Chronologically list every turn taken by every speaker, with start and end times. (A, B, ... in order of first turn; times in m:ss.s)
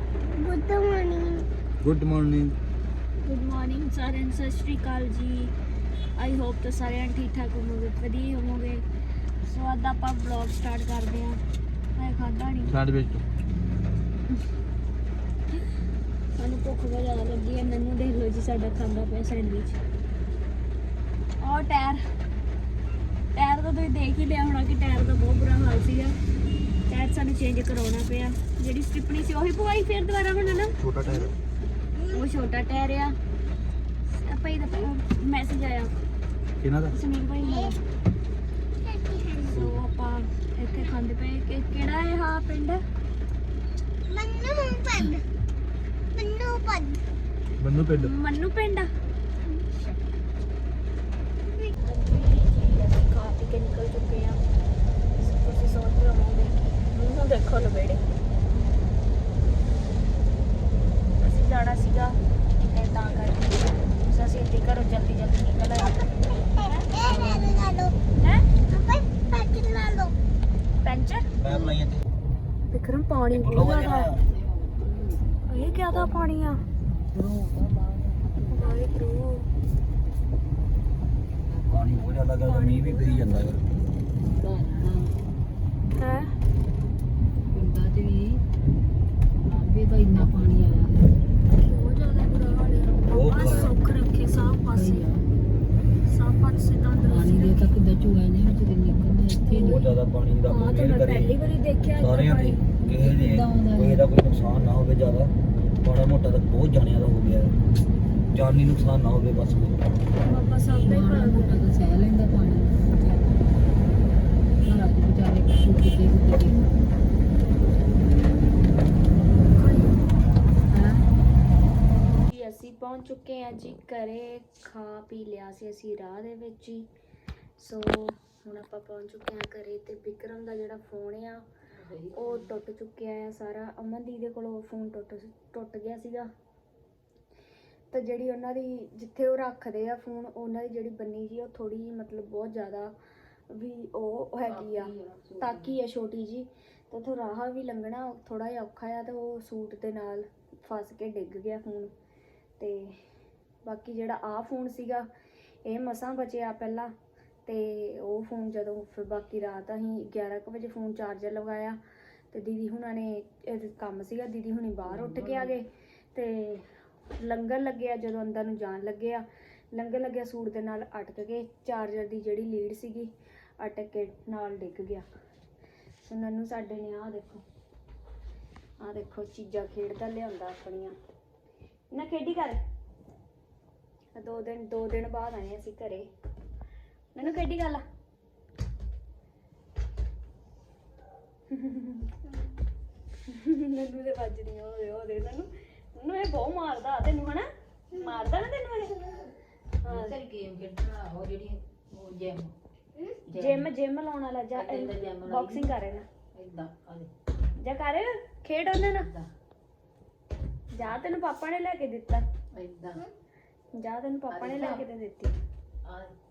0:00.3-0:01.5 A
0:01.8-0:02.6 B
0:03.2-0:05.5 C
0:06.2-0:08.8 C
0:09.4-0:11.4 C
0:12.0-0:12.8 C
0:12.7-0:13.2 B
0:16.4-0:19.8 C
0:21.4-0:22.0 C
0:23.3-0:26.2 C
0:26.9-0:30.8 C
0:30.8-0:31.4 B
0:32.1-0:33.2 C
0:34.1-0:36.0 C
0:36.6-0:37.0 B
0:36.9-0:37.8 C
0:37.4-0:37.8 A
0:38.8-0:39.7 A
0:39.5-0:42.8 C
0:44.1-0:45.2 A
0:46.1-0:47.0 A
0:47.6-0:48.1 B
0:48.0-0:48.9 C
0:51.5-0:51.8 A
0:51.8-0:54.4 C
0:55.2-0:58.0 C
1:01.2-1:06.0 C
1:05.8-1:08.0 A
1:07.0-1:07.7 D
1:08.2-1:08.5 C
1:08.7-1:10.1 A
1:10.8-1:11.3 C
1:11.4-1:12.0 B
1:11.4-1:11.7 A
1:12.7-1:14.1 C
1:13.3-1:14.2 B
1:14.2-1:15.3 D
1:15.5-1:16.6 C
1:15.9-1:16.4 D
1:16.9-1:18.9 D
1:18.5-1:19.5 C
1:21.5-1:22.0 D
1:21.7-1:23.6 B
1:22.4-1:23.6 C
1:24.2-1:25.2 D
1:26.0-1:26.3 C
1:27.5-1:28.4 D
1:29.4-1:31.2 D
1:31.6-1:35.0 C
1:33.1-1:33.7 B
1:34.7-1:35.3 D
1:36.1-1:37.8 C
1:37.1-1:39.9 D
1:39.5-1:39.8 C
1:39.6-1:41.4 B
1:40.5-1:42.6 C
1:42.0-1:47.6 B
1:42.9-1:44.0 D
1:48.3-1:49.9 B
1:50.2-1:51.6 C
1:50.7-1:53.6 D
1:54.6-1:56.9 D
1:59.5-2:00.1 C
2:00.7-2:01.1 D
2:02.0-2:06.9 C
2:07.6-2:11.4 C
2:11.7-2:12.6 D
2:12.2-2:16.3 C
2:17.9-2:22.9 C
2:23.5-2:31.9 C
2:24.5-2:25.8 D
2:32.6-2:33.0 C
2:33.6-2:35.1 C
2:35.6-2:36.9 C
2:37.5-2:41.8 C
2:42.3-2:55.1 C
2:44.8-2:45.6 D
2:56.0-2:57.4 C
2:58.8-3:01.0 C
3:01.9-3:02.6 C
3:04.2-3:06.1 C
3:07.2-3:07.8 C
3:11.5-3:12.1 C
3:13.3-3:19.2 C
3:19.8-3:20.2 C
3:19.8-3:22.6 D
3:23.0-3:23.2 A
3:23.3-3:23.7 D
3:23.3-3:26.1 C
3:24.5-3:25.7 D
3:26.3-3:27.1 D
3:27.6-3:29.1 C
3:29.0-3:29.3 D
3:30.7-3:32.3 C
3:32.5-3:33.0 D
3:33.7-3:35.4 C
3:34.3-3:34.9 D
3:35.8-3:36.1 D